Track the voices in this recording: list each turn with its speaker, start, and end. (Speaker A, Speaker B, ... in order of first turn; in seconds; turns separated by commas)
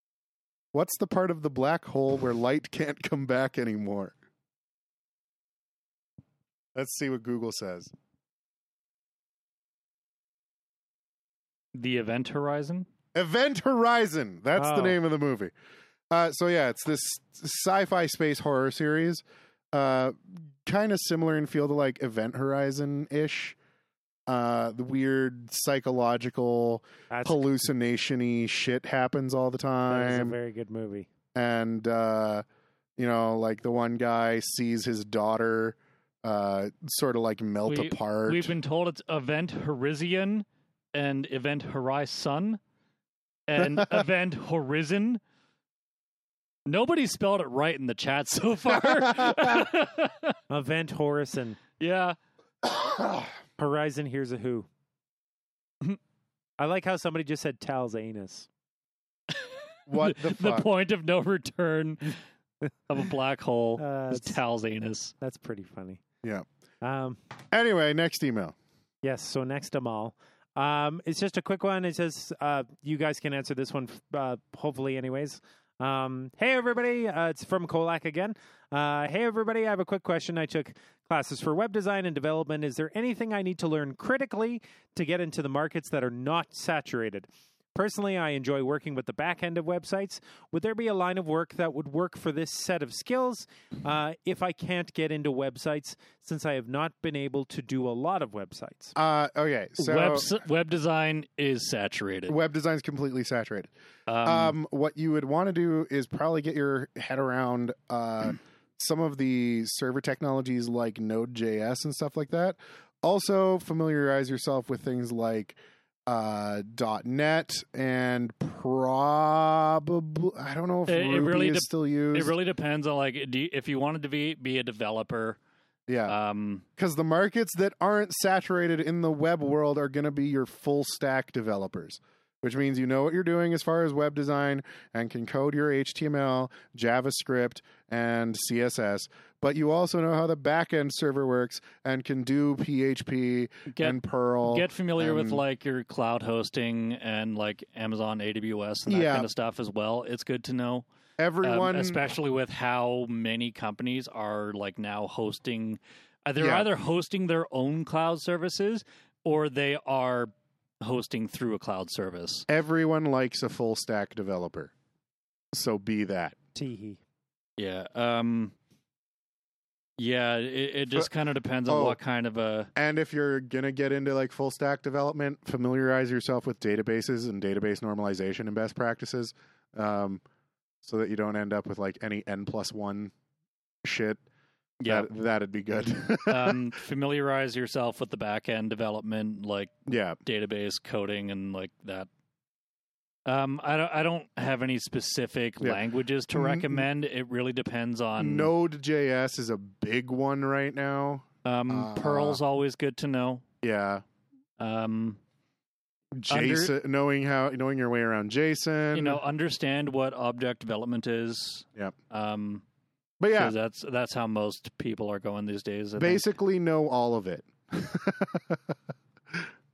Speaker A: 0.7-4.2, Speaker A: 6.7-7.9, Speaker B: 11.7-12.9, Speaker A: 13.1-15.5, Speaker C: 14.6-15.0, Speaker A: 16.1-23.6, Speaker A: 24.3-30.4, Speaker C: 27.1-27.4, Speaker C: 29.9-31.1, Speaker A: 31.4-32.4, Speaker A: 33.0-38.5, Speaker B: 37.7-42.6, Speaker B: 43.5-45.2, Speaker A: 43.6-44.1, Speaker B: 46.7-50.4, Speaker A: 48.7-49.7, Speaker C: 50.5-51.6, Speaker B: 51.8-52.2, Speaker A: 52.6-53.4, Speaker C: 53.6-54.7, Speaker C: 56.6-58.5, Speaker A: 59.9-60.7, Speaker B: 60.0-62.2, Speaker B: 62.9-65.1, Speaker C: 63.8-64.4, Speaker C: 65.2-66.0, Speaker C: 66.8-67.2, Speaker A: 67.5-68.5, Speaker C: 69.0-98.9, Speaker A: 99.0-100.3, Speaker B: 99.8-102.3, Speaker A: 102.3-103.7, Speaker B: 104.1-104.6, Speaker A: 104.2-122.3, Speaker B: 120.9-125.4, Speaker A: 125.9-126.2, Speaker B: 126.1-126.6, Speaker A: 126.8-145.4, Speaker B: 143.7-150.8, Speaker A: 148.9-149.3, Speaker A: 151.2-152.0, Speaker B: 151.4-162.5, Speaker A: 156.4-156.7, Speaker A: 162.5-164.7, Speaker A: 165.5-166.4, Speaker C: 166.6-167.0, Speaker B: 167.6-168.5, Speaker B: 170.0-172.7, Speaker A: 171.7-172.0, Speaker A: 172.8-180.2, Speaker A: 180.8-183.1, Speaker A: 183.8-184.2, Speaker A: 184.8-186.8, Speaker B: 186.3-192.1, Speaker A: 189.9-190.2, Speaker B: 193.2-198.5, Speaker A: 196.3-196.9, Speaker A: 198.2-202.4, Speaker B: 201.4-203.4, Speaker A: 203.6-204.0, Speaker B: 204.6-205.2, Speaker A: 206.2-209.2, Speaker B: 206.3-206.7, Speaker B: 208.9-212.6, Speaker A: 213.2-213.5, Speaker B: 213.3-216.2, Speaker A: 216.0-218.7